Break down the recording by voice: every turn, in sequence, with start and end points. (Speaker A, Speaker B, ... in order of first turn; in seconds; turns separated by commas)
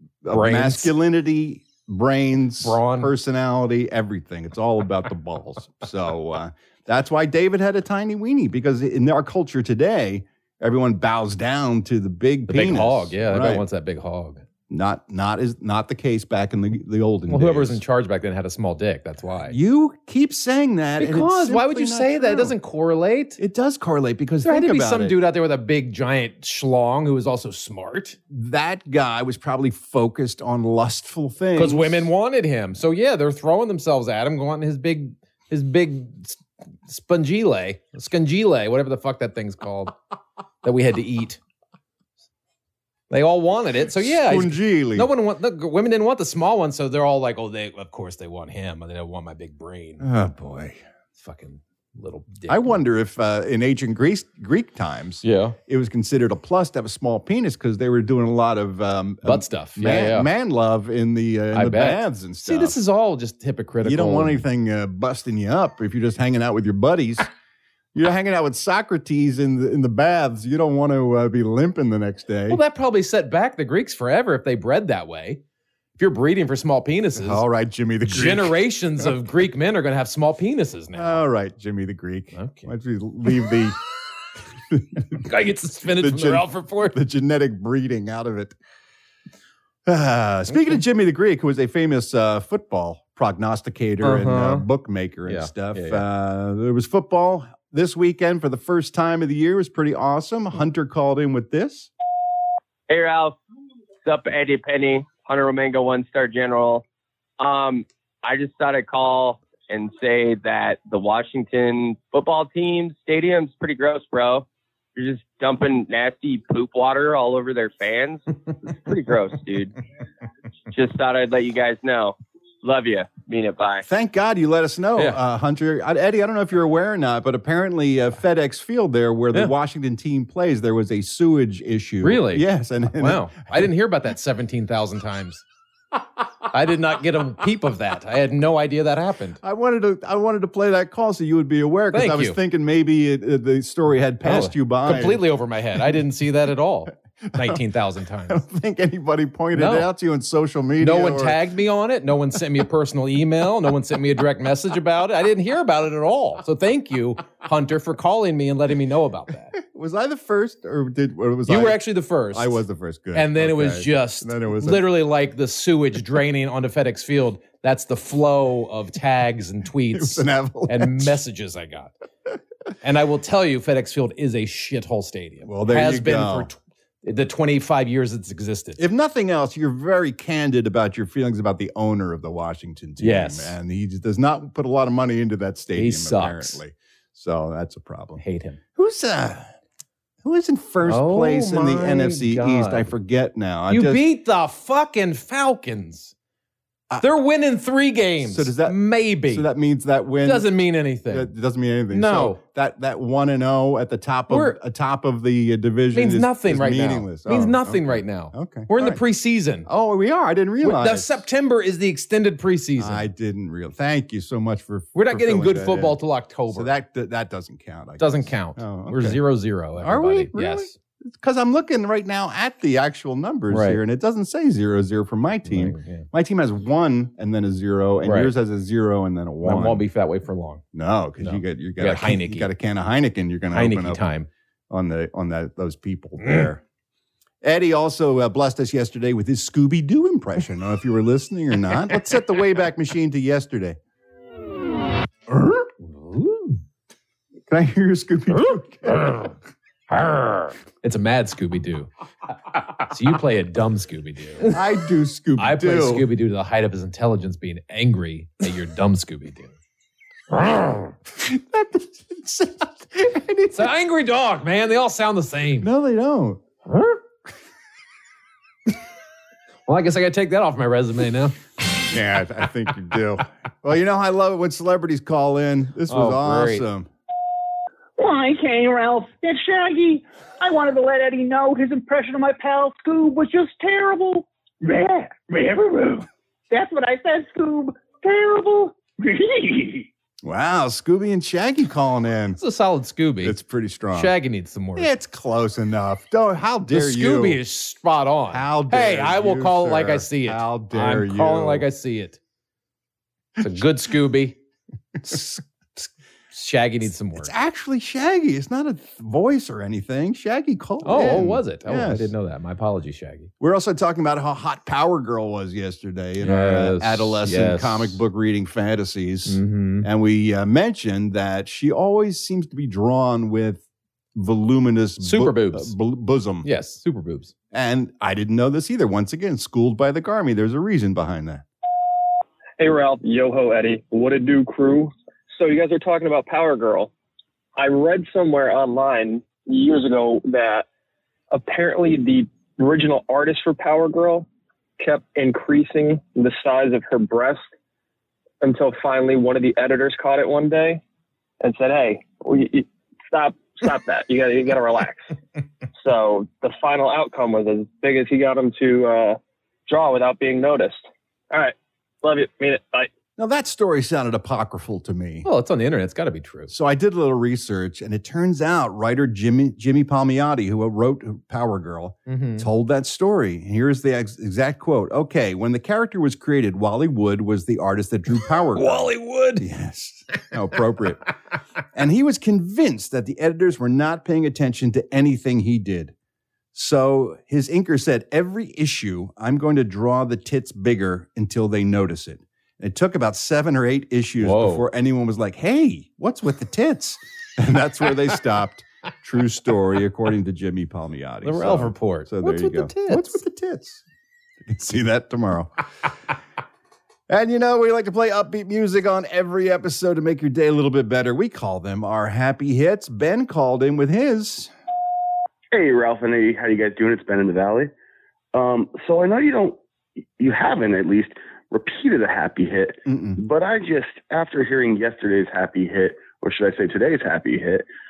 Speaker A: 0.2-13.6, Speaker B: 0.3-0.9, Speaker B: 2.6-3.1, Speaker B: 12.5-14.4, Speaker A: 14.7-17.8, Speaker B: 17.3-19.6, Speaker A: 19.4-22.5, Speaker B: 21.0-23.4, Speaker A: 23.4-25.2, Speaker B: 24.4-28.2, Speaker A: 28.3-32.1, Speaker B: 31.5-40.0, Speaker B: 40.6-41.4, Speaker B: 43.1-50.0, Speaker A: 44.0-45.1, Speaker A: 50.0-50.8, Speaker B: 51.1-52.8, Speaker A: 52.5-62.8, Speaker B: 55.2-55.6, Speaker B: 59.2-60.3, Speaker B: 61.5-64.4, Speaker A: 63.8-67.3, Speaker A: 67.9-72.6, Speaker B: 72.5-75.4, Speaker B: 76.0-77.4, Speaker A: 77.1-78.6, Speaker B: 78.0-81.2, Speaker A: 80.9-83.8, Speaker B: 82.3-82.7, Speaker A: 84.7-85.2, Speaker B: 85.2-87.0, Speaker A: 86.0-88.5, Speaker A: 89.8-101.9, Speaker B: 90.5-90.8, Speaker B: 94.0-94.7, Speaker B: 95.2-96.0, Speaker C: 102.9-103.3, Speaker C: 104.0-106.8, Speaker C: 107.4-119.7, Speaker C: 120.7-123.8, Speaker A: 123.8-133.6, Speaker B: 132.0-135.4, Speaker B: 136.5-139.4, Speaker A: 139.4-145.2, Speaker B: 141.9-142.4, Speaker B: 144.2-148.4, Speaker A: 147.3-147.6, Speaker A: 148.3-151.4, Speaker B: 149.5-149.9, Speaker B: 150.8-159.5, Speaker A: 159.6-164.9, Speaker B: 161.5-162.6, Speaker B: 163.1-171.9, Speaker A: 169.9-171.2, Speaker B: 172.8-178.8, Speaker A: 175.4-176.5, Speaker A: 178.8-188.2, Speaker B: 183.0-183.6, Speaker B: 185.7-186.6, Speaker B: 188.2-188.6, Speaker A: 188.7-189.5, Speaker A: 190.2-194.0, Speaker B: 190.8-192.9, Speaker B: 193.7-196.1, Speaker B: 197.0-199.5, Speaker A: 198.2-200.5, Speaker B: 200.2-201.3, Speaker A: 201.1-209.0, Speaker B: 201.9-202.4, Speaker B: 204.3-204.6, Speaker B: 205.9-209.7, Speaker A: 209.6-211.1, Speaker B: 210.6-213.1, Speaker A: 212.8-216.0, Speaker B: 214.9-216.7, Speaker A: 216.5-219.2, Speaker B: 218.0-220.8, Speaker A: 219.8-229.9, Speaker B: 223.5-223.8, Speaker B: 225.4-226.1, Speaker B: 228.0-228.3, Speaker B: 229.4-230.6, Speaker A: 230.7-234.0, Speaker B: 231.2-232.5, Speaker B: 233.5-234.3, Speaker A: 234.7-236.6, Speaker B: 236.2-236.5, Speaker A: 237.4-243.8, Speaker A: 245.3-245.7, Speaker B: 245.8-246.6, Speaker A: 247.5-249.3, Speaker B: 248.3-249.3, Speaker B: 249.9-251.9, Speaker B: 252.5-254.5, Speaker A: 254.5-256.1, Speaker B: 255.4-259.5, Speaker B: 260.3-260.9, Speaker A: 261.1-263.7, Speaker B: 263.5-265.7, Speaker A: 265.6-266.4, Speaker B: 266.7-267.0, Speaker B: 269.6-271.4, Speaker A: 271.9-276.9, Speaker B: 275.9-276.6, Speaker D: 278.0-289.9, Speaker A: 290.2-292.4, Speaker B: 292.4-293.4, Speaker A: 293.2-294.1, Speaker B: 293.9-294.9, Speaker A: 294.8-297.4, Speaker B: 296.7-302.2, Speaker A: 298.3-301.7, Speaker B: 303.4-304.4, Speaker A: 305.0-305.8, Speaker B: 306.3-307.3, Speaker A: 307.1-312.1, Speaker B: 310.8-313.3, Speaker A: 313.4-326.5, Speaker B: 316.2-318.0, Speaker B: 319.2-319.9, Speaker B: 325.0-325.7, Speaker B: 326.4-327.3, Speaker A: 327.5-331.4, Speaker E: 332.6-336.9, Speaker E: 337.6-340.6, Speaker E: 341.3-344.3, Speaker E: 344.8-347.5, Speaker E: 348.4-350.8, Speaker E: 351.4-355.1, Speaker E: 355.7-362.9, Speaker A: 363.2-365.3, Speaker B: 365.2-366.5, Speaker A: 366.5-381.1, Speaker B: 372.1-372.5, Speaker B: 378.5-379.4, Speaker A: 381.7-385.9, Speaker A: 386.5-403.8, Speaker B: 394.2-394.6, Speaker B: 401.2-403.2, Speaker A: 404.5-405.5, Speaker A: 407.1-414.5, Speaker F: 415.5-417.7, Speaker F: 418.3-419.6, Speaker F: 420.2-427.6, Speaker A: 422.9-423.2